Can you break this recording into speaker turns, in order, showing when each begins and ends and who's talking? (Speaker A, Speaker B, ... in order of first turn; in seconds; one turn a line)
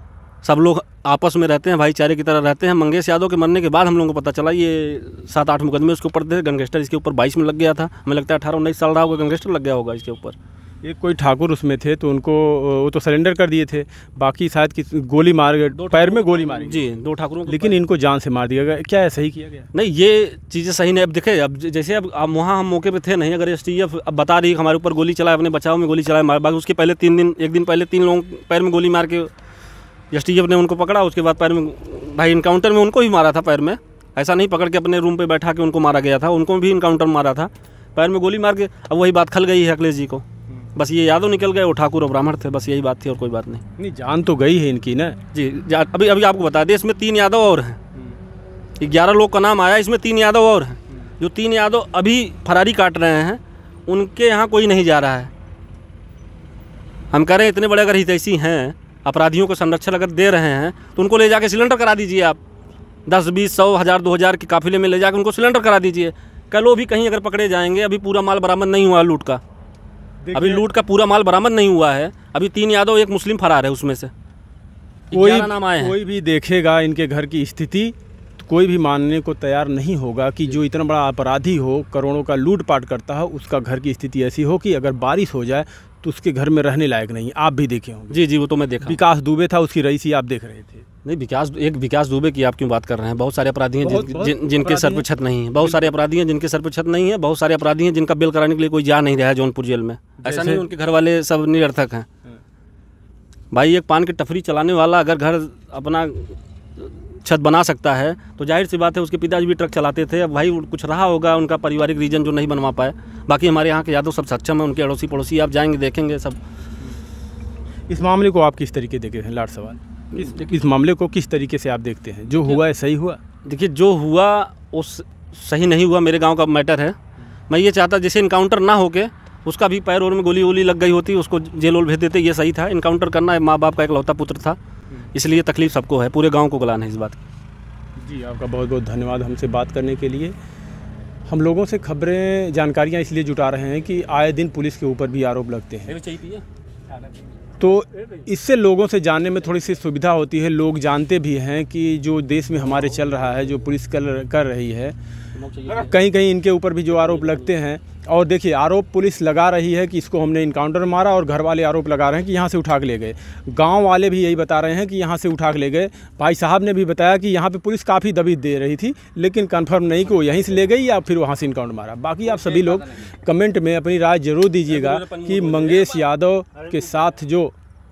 Speaker A: 0.4-10.3
Speaker B: 10.8-16.9
Speaker A: 15.8-17.8
Speaker B: 17.5-19.7
Speaker A: 19.7-29.3
Speaker A: 30.1-43.6
Speaker B: 43.8-45.2
Speaker A: 45.3-47.8
Speaker A: 48.8-55.3
Speaker A: 57.1-62.4
Speaker A: 63.0-69.4
Speaker B: 70.2-70.6
Speaker A: 70.3-74.1
Speaker A: 75.1-76.0
Speaker B: 75.1-88.2
Speaker A: 88.1-89.0
Speaker B: 88.8-90.8
Speaker A: 91.0-102.1
Speaker B: 93.8-95.1
Speaker B: 95.6-95.9
Speaker B: 100.2-100.6
Speaker A: 103.5-116.4
Speaker B: 117.9-123.2
Speaker A: 123.5-127.0
Speaker A: 127.5-134.6
Speaker A: 135.1-137.2
Speaker B: 138.0-140.3
Speaker B: 141.3-146.0
Speaker A: 145.9-146.4
Speaker B: 147.6-154.9
Speaker A: 155.3-155.9
Speaker B: 155.7-177.5
Speaker A: 174.7-176.0